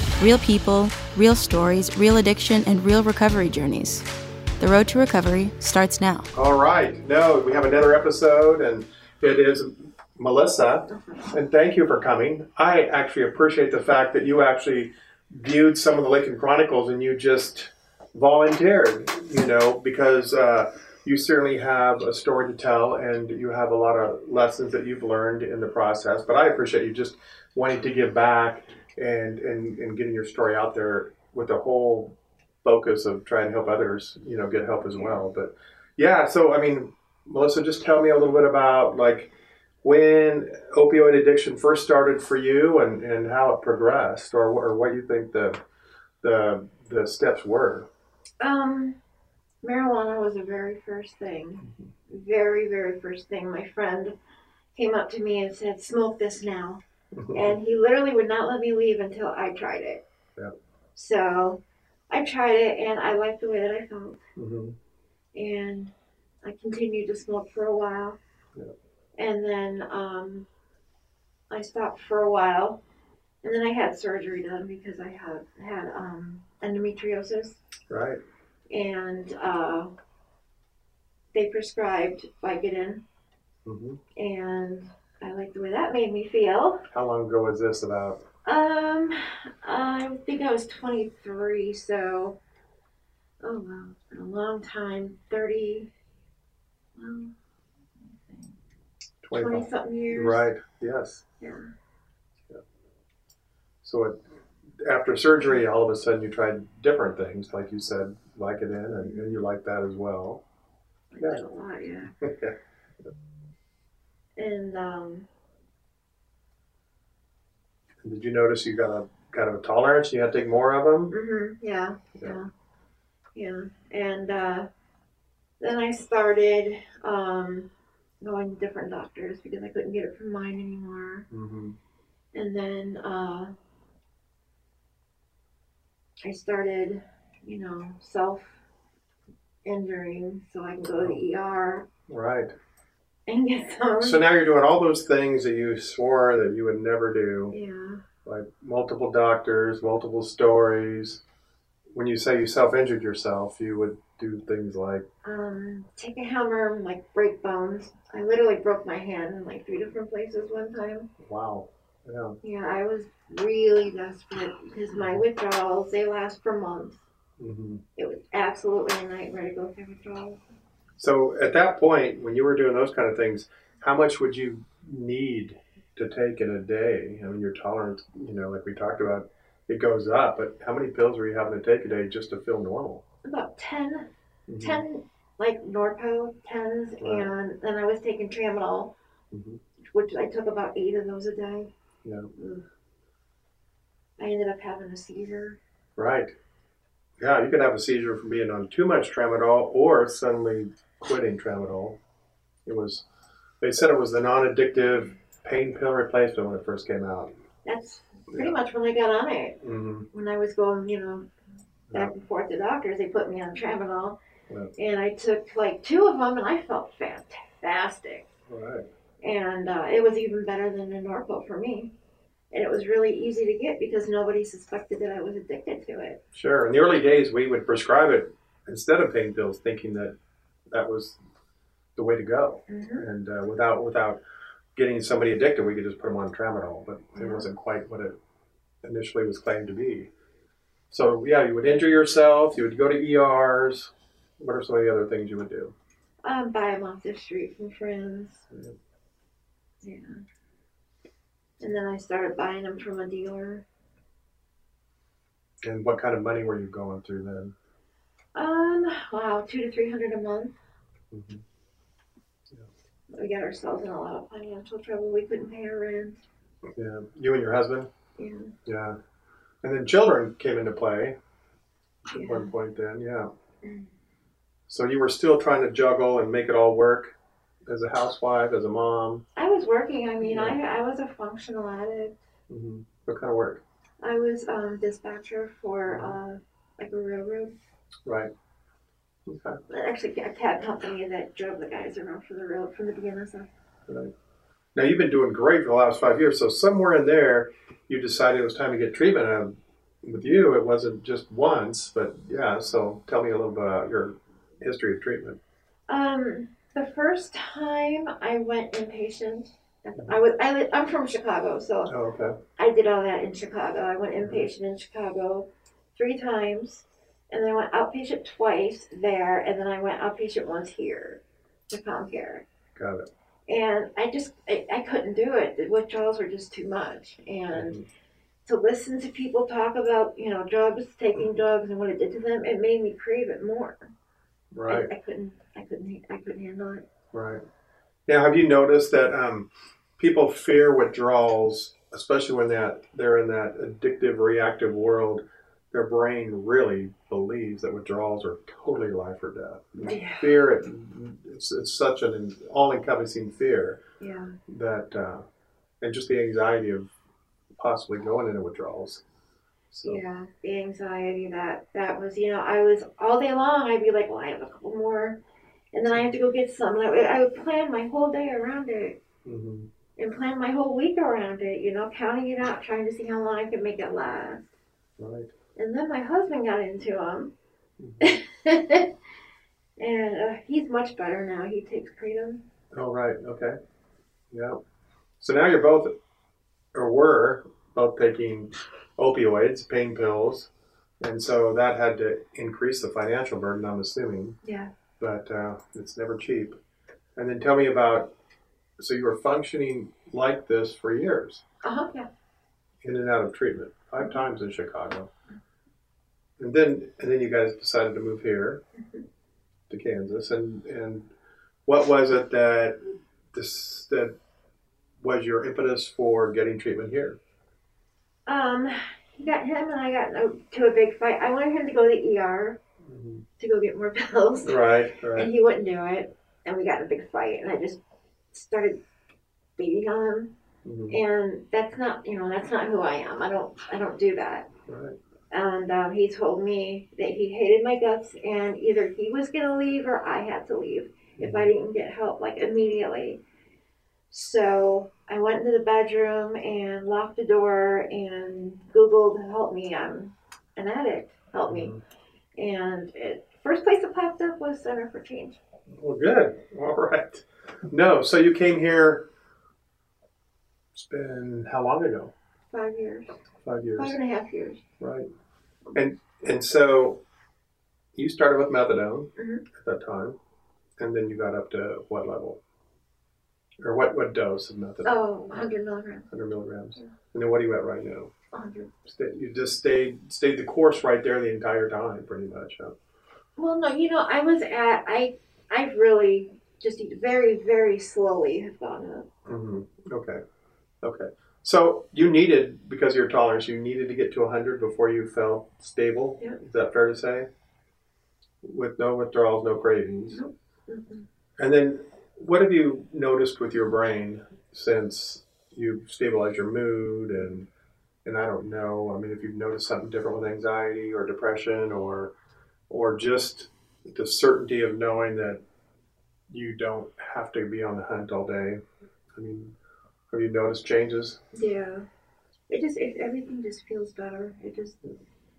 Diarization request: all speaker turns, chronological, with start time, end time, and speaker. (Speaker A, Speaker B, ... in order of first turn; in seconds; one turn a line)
Speaker A: 0.2-4.0
Speaker A: 4.6-6.3
Speaker B: 6.3-39.3
Speaker B: 39.8-45.6
Speaker B: 46.2-47.9
Speaker C: 48.4-49.0
Speaker C: 49.6-54.1
Speaker B: 51.6-51.9
Speaker C: 54.7-56.8
Speaker B: 57.1-57.6
Speaker C: 57.3-60.0
Speaker C: 60.9-64.2
Speaker B: 64.3-64.8
Speaker C: 65.3-68.2
Speaker C: 69.2-70.5
Speaker C: 71.5-72.8
Speaker C: 73.4-77.6
Speaker B: 77.9-78.2
Speaker C: 78.7-79.9
Speaker C: 81.3-83.0
Speaker B: 83.6-84.0
Speaker C: 84.2-86.8
Speaker B: 86.9-88.2
Speaker C: 88.4-92.4
Speaker C: 93.4-95.9
Speaker C: 96.9-97.3
Speaker C: 98.0-98.6
Speaker B: 99.2-101.2
Speaker C: 99.3-100.5
Speaker C: 101.4-101.6
Speaker B: 103.8-104.2
Speaker B: 104.8-110.4
Speaker C: 109.0-109.4
Speaker C: 111.1-112.1
Speaker B: 112.2-112.5
Speaker C: 114.4-115.3
Speaker B: 118.0-121.1
Speaker C: 121.1-122.5
Speaker C: 123.3-124.7
Speaker C: 125.6-131.3
Speaker B: 131.3-131.8
Speaker C: 132.3-133.5
Speaker C: 136.2-138.6
Speaker C: 139.6-141.9
Speaker B: 140.9-141.2
Speaker B: 142.1-142.5
Speaker C: 143.3-144.2
Speaker B: 144.0-147.5
Speaker C: 147.5-148.0
Speaker B: 148.2-151.2
Speaker B: 151.9-155.1
Speaker C: 155.2-161.1
Speaker B: 161.2-162.4
Speaker C: 162.4-167.0
Speaker B: 164.9-165.2
Speaker B: 167.4-167.8
Speaker C: 167.9-170.4
Speaker B: 171.0-183.0
Speaker C: 183.2-188.9
Speaker B: 184.5-184.8
Speaker B: 187.0-187.3
Speaker B: 189.3-189.6
Speaker C: 189.9-191.7
Speaker B: 192.0-192.3
Speaker C: 192.3-192.6
Speaker C: 194.2-195.6
Speaker B: 195.9-196.3
Speaker B: 197.2-202.0
Speaker B: 202.7-203.0
Speaker B: 203.6-207.3
Speaker C: 207.6-211.3
Speaker B: 208.3-208.6
Speaker B: 209.6-210.1
Speaker C: 211.9-214.2
Speaker C: 214.8-218.3
Speaker B: 218.5-218.8
Speaker C: 219.2-221.9
Speaker C: 222.5-226.2
Speaker B: 226.3-230.1
Speaker B: 230.7-231.2
Speaker B: 231.9-234.2
Speaker C: 232.7-233.0
Speaker B: 234.8-238.2
Speaker C: 237.2-237.5
Speaker B: 238.8-240.1
Speaker B: 240.9-245.7
Speaker C: 246.2-248.4
Speaker C: 249.8-250.2
Speaker C: 251.6-253.6
Speaker B: 255.6-257.5
Speaker C: 258.3-260.5
Speaker B: 261.1-261.4
Speaker C: 263.1-266.2
Speaker B: 266.7-267.9
Speaker C: 268.2-268.5
Speaker B: 268.6-269.0
Speaker B: 269.6-271.2
Speaker C: 272.1-272.5
Speaker B: 272.1-273.3
Speaker C: 273.6-273.9
Speaker B: 274.7-279.2
Speaker C: 279.4-282.2
Speaker B: 280.2-280.6
Speaker B: 282.5-283.6
Speaker C: 284.0-287.6
Speaker B: 285.9-286.2
Speaker B: 288.0-288.3
Speaker B: 289.2-289.6
Speaker C: 289.7-293.5
Speaker B: 293.9-294.1
Speaker B: 294.7-305.4
Speaker C: 305.9-311.9
Speaker B: 311.9-312.4
Speaker C: 312.6-322.4
Speaker B: 314.2-314.5
Speaker B: 322.8-323.1
Speaker C: 323.5-327.8
Speaker B: 327.5-327.9
Speaker C: 328.4-333.9
Speaker B: 331.1-331.4
Speaker B: 334.5-334.9
Speaker C: 334.7-336.9
Speaker B: 337.1-337.4
Speaker B: 338.1-353.8
Speaker C: 349.8-350.4
Speaker C: 354.0-354.4
Speaker B: 354.5-355.2
Speaker B: 355.8-356.9
Speaker B: 357.6-359.0
Speaker B: 359.7-360.0
Speaker C: 359.8-369.0
Speaker B: 369.2-369.7
Speaker C: 369.9-374.5
Speaker B: 375.0-375.3
Speaker C: 375.5-377.3
Speaker B: 377.8-378.2
Speaker C: 378.0-378.9
Speaker C: 379.8-382.4
Speaker B: 382.7-383.6
Speaker B: 384.3-384.6
Speaker B: 385.2-385.9
Speaker B: 386.7-390.5
Speaker B: 391.0-394.4
Speaker C: 394.4-394.7
Speaker B: 395.0-396.6
Speaker B: 397.1-398.1
Speaker B: 398.8-401.4
Speaker C: 401.6-402.1
Speaker B: 402.8-405.1
Speaker B: 406.4-408.6
Speaker C: 408.8-409.0
Speaker B: 409.7-411.1
Speaker B: 411.6-414.1
Speaker B: 415.0-417.2
Speaker C: 418.2-422.6
Speaker B: 422.8-423.2
Speaker C: 423.4-427.8
Speaker B: 424.4-425.3
Speaker C: 428.3-428.8
Speaker C: 429.6-430.3
Speaker B: 430.6-431.0
Speaker C: 430.9-434.5
Speaker B: 434.7-435.0
Speaker C: 435.3-443.2
Speaker B: 441.2-441.5
Speaker C: 444.1-451.7
Speaker B: 451.4-451.8
Speaker C: 452.4-455.4
Speaker B: 455.7-459.1
Speaker B: 460.7-462.1
Speaker C: 462.5-463.2
Speaker B: 463.4-464.0
Speaker C: 463.8-464.6
Speaker B: 464.8-465.1
Speaker B: 465.7-467.0
Speaker B: 467.9-470.2
Speaker C: 469.2-469.4
Speaker B: 470.8-472.4
Speaker B: 473.6-475.5
Speaker C: 474.8-476.1
Speaker B: 476.1-478.1
Speaker C: 478.3-478.7
Speaker B: 478.8-482.8
Speaker C: 483.4-489.1
Speaker B: 489.2-490.2
Speaker B: 490.8-497.3
Speaker B: 498.4-500.2
Speaker C: 500.1-501.1
Speaker B: 501.4-507.5
Speaker B: 508.0-512.1
Speaker B: 512.7-515.4
Speaker B: 516.3-518.6
Speaker B: 519.1-519.5
Speaker B: 520.1-521.2
Speaker C: 521.3-521.9
Speaker C: 522.5-524.8